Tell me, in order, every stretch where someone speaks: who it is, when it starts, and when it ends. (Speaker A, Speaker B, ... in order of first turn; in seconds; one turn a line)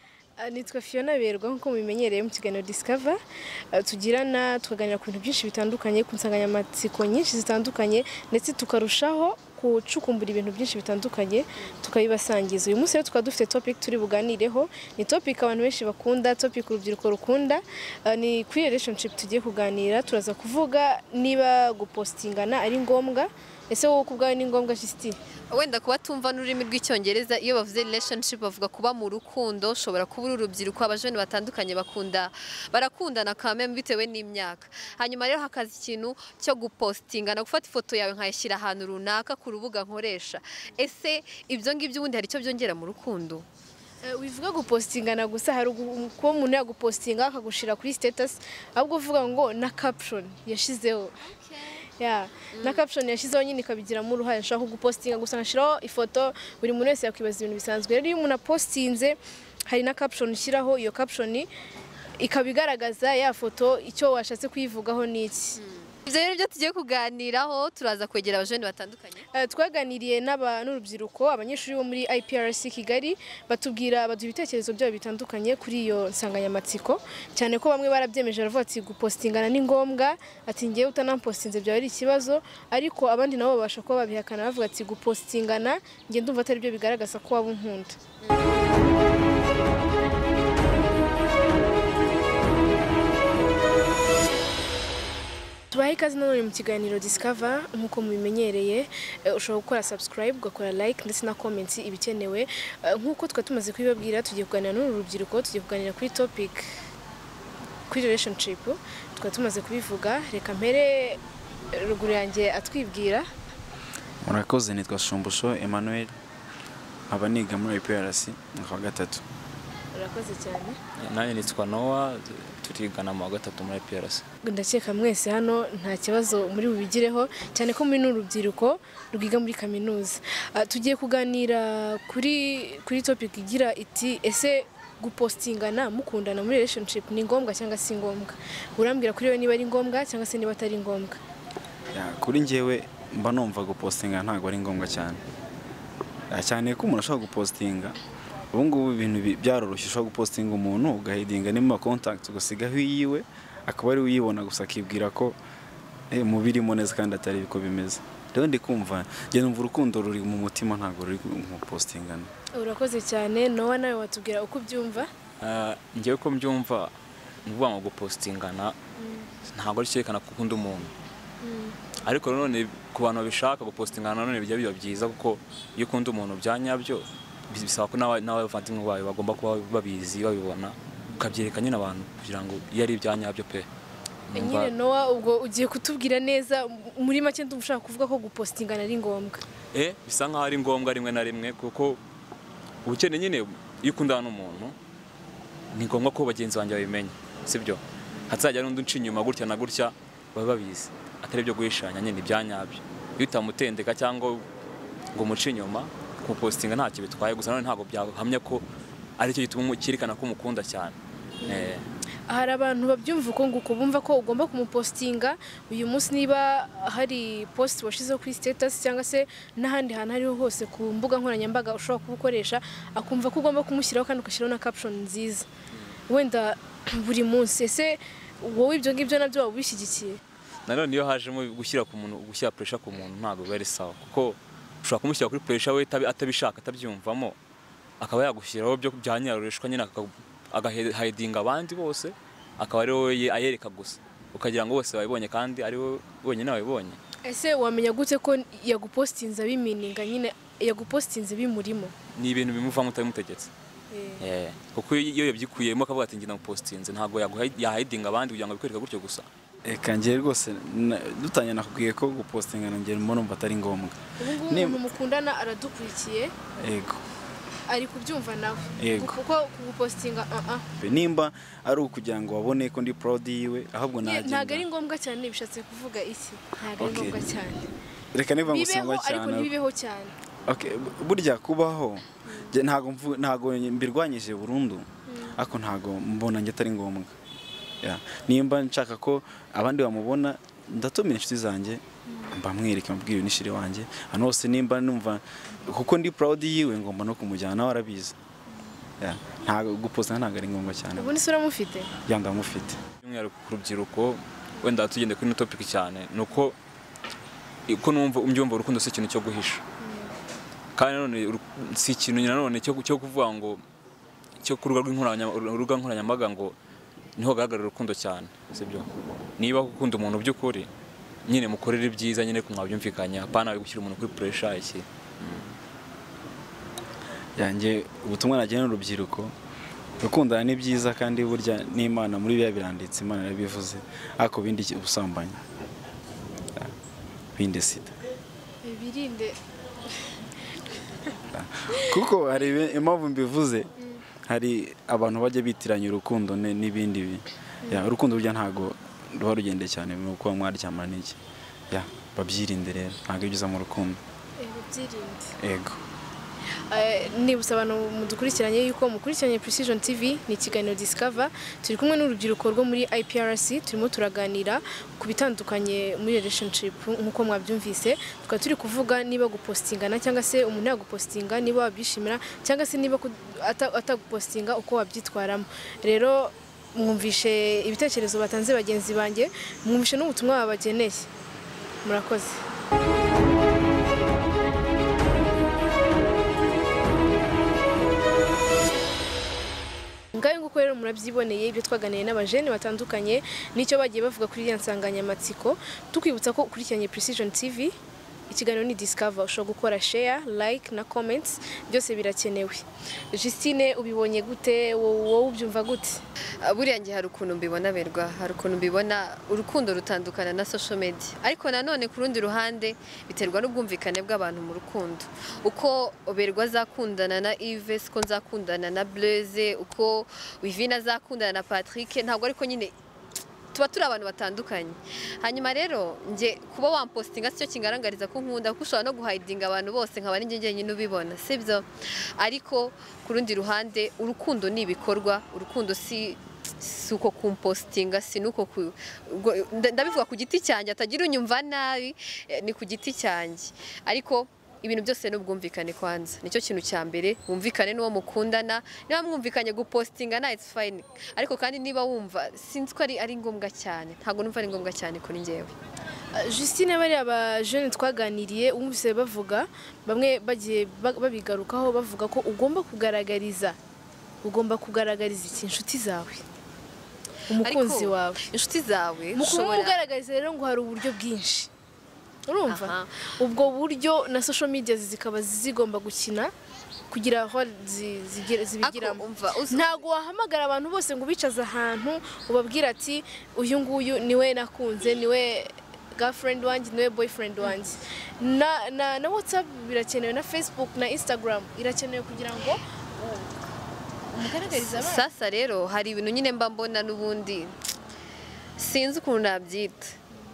Speaker A: 0.4-3.2
Speaker A: 3.7-25.2
Speaker B: 25.5-43.5
Speaker A: 44.0-51.2
Speaker B: 51.2-51.8
Speaker A: 52.0-59.2
Speaker B: 52.5-52.9
Speaker A: 59.7-61.5
Speaker A: 62.2-65.6
Speaker B: 65.6-69.2
Speaker A: 69.3-88.0
Speaker A: 95.7-106.8
Speaker A: 107.9-111.2
Speaker A: 111.7-113.3
Speaker C: 114.2-116.1
Speaker C: 117.1-119.2
Speaker A: 119.9-120.8
Speaker D: 121.0-124.2
Speaker A: 124.4-141.2
Speaker C: 141.9-145.2
Speaker C: 146.3-147.9
Speaker C: 148.5-155.4
Speaker C: 156.1-162.3
Speaker A: 162.5-165.1
Speaker D: 165.4-166.9
Speaker D: 167.4-168.8
Speaker A: 169.0-169.3
Speaker D: 169.5-170.9
Speaker A: 171.4-171.7
Speaker D: 172.0-183.7
Speaker D: 184.3-184.7
Speaker A: 184.3-189.4
Speaker D: 189.7-192.0
Speaker D: 192.8-194.8
Speaker D: 195.7-204.4
Speaker D: 205.1-208.6
Speaker D: 209.2-211.9
Speaker A: 211.4-211.7
Speaker A: 212.3-225.5
Speaker A: 226.1-230.2
Speaker D: 230.7-237.3
Speaker D: 238.0-247.0
Speaker A: 247.2-251.9
Speaker D: 252.1-253.5
Speaker A: 253.9-254.2
Speaker D: 254.2-259.3
Speaker C: 259.6-264.9
Speaker A: 264.2-266.3
Speaker C: 266.6-267.0
Speaker A: 267.7-270.6
Speaker C: 268.8-269.1
Speaker C: 270.8-274.6
Speaker A: 274.0-277.7
Speaker C: 276.8-277.2
Speaker C: 278.1-279.5
Speaker A: 278.4-280.1
Speaker C: 280.4-287.1
Speaker A: 285.1-285.4
Speaker C: 287.8-298.1
Speaker C: 299.0-301.2
Speaker A: 300.9-301.9
Speaker C: 302.1-302.8
Speaker D: 303.0-306.6
Speaker D: 307.7-309.6
Speaker A: 309.8-310.1
Speaker D: 310.8-313.6
Speaker D: 314.4-316.5
Speaker D: 317.2-320.7
Speaker D: 321.2-325.6
Speaker C: 327.4-329.3
Speaker C: 330.0-335.4
Speaker C: 337.3-338.0
Speaker A: 338.6-339.4
Speaker A: 340.0-341.1
Speaker C: 341.3-343.7
Speaker A: 341.7-342.0
Speaker C: 344.3-351.2
Speaker C: 351.7-354.0
Speaker A: 354.4-355.3
Speaker C: 355.4-355.8
Speaker A: 356.7-381.1
Speaker A: 381.8-382.4
Speaker A: 390.1-397.7
Speaker A: 398.3-406.0
Speaker B: 406.4-422.7
Speaker B: 423.5-455.5
Speaker A: 456.1-463.6
Speaker A: 464.2-466.2
Speaker A: 467.3-468.2
Speaker B: 467.3-469.8
Speaker A: 469.1-471.5
Speaker A: 472.3-476.3
Speaker B: 472.5-473.1
Speaker A: 476.9-493.3
Speaker B: 478.6-479.8
Speaker A: 494.1-495.1
Speaker B: 494.3-497.5
Speaker B: 498.6-500.0